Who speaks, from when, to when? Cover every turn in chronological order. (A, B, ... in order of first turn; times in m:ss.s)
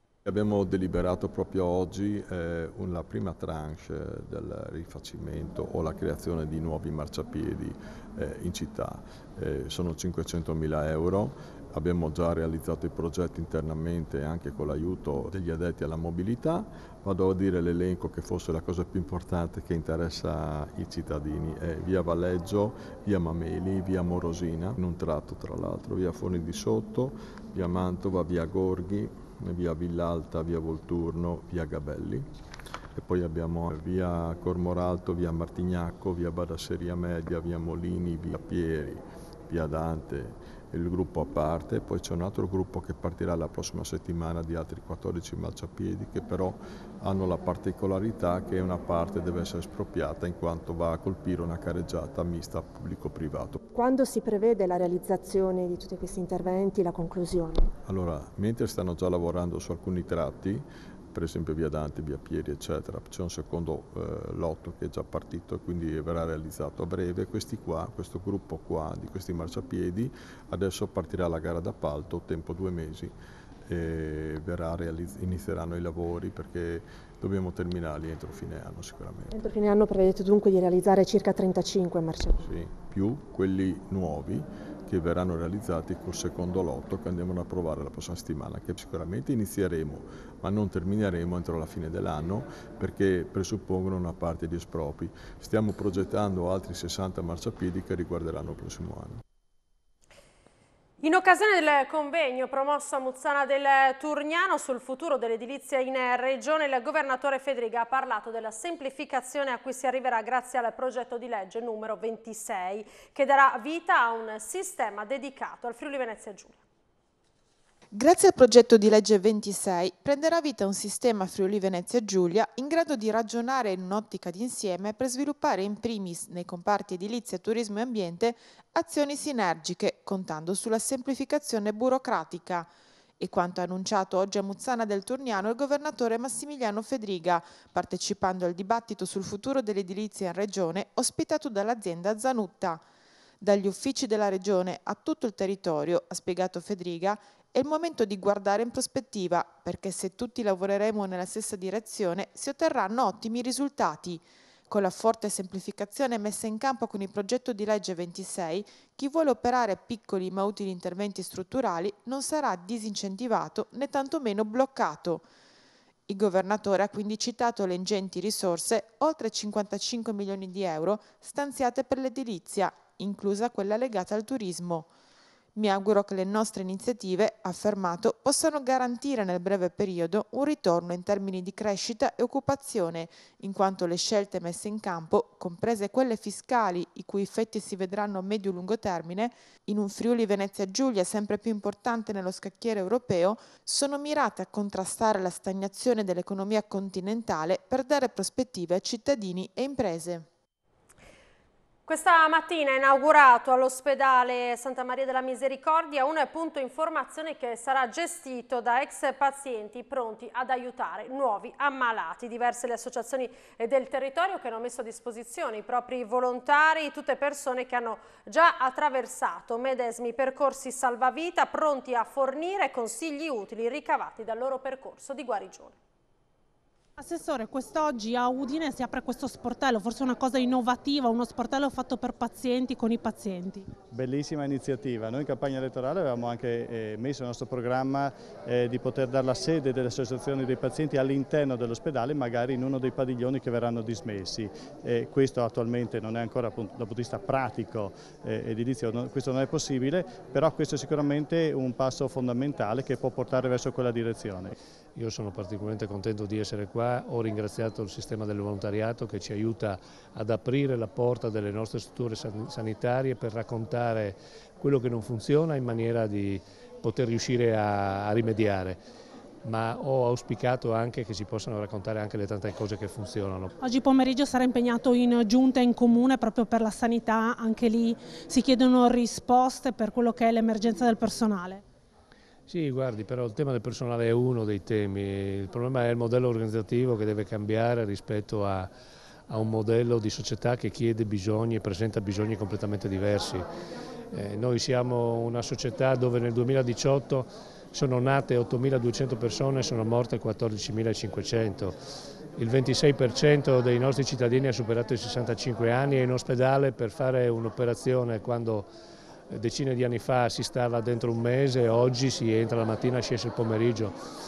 0:00.2-0:32.3 A
0:33.0-0:53.6 A
0:53.7-0:57.7 B
0:57.8-1:13.2 A
1:13.7-1:19.4 A
1:19.3-1:22.5 B
1:22.4-1:39.2 A
1:41.0-1:56.6 C
1:57.9-2:22.8 D
2:23.4-2:45.3 D
2:46.1-2:54.9 D
2:55.6-3:20.2 D
3:21.8-3:45.8 C
3:47.0-3:53.7 E
3:53.9-4:14.6 F
4:15.0-4:28.8 G
4:29.4-4:33.5 G
4:33.6-4:41.6 E
4:42.5-4:48.7 G
4:49.3-4:53.4 G
4:54.1-5:01.8 G
5:02.4-5:08.7 G
5:09.3-5:13.9 G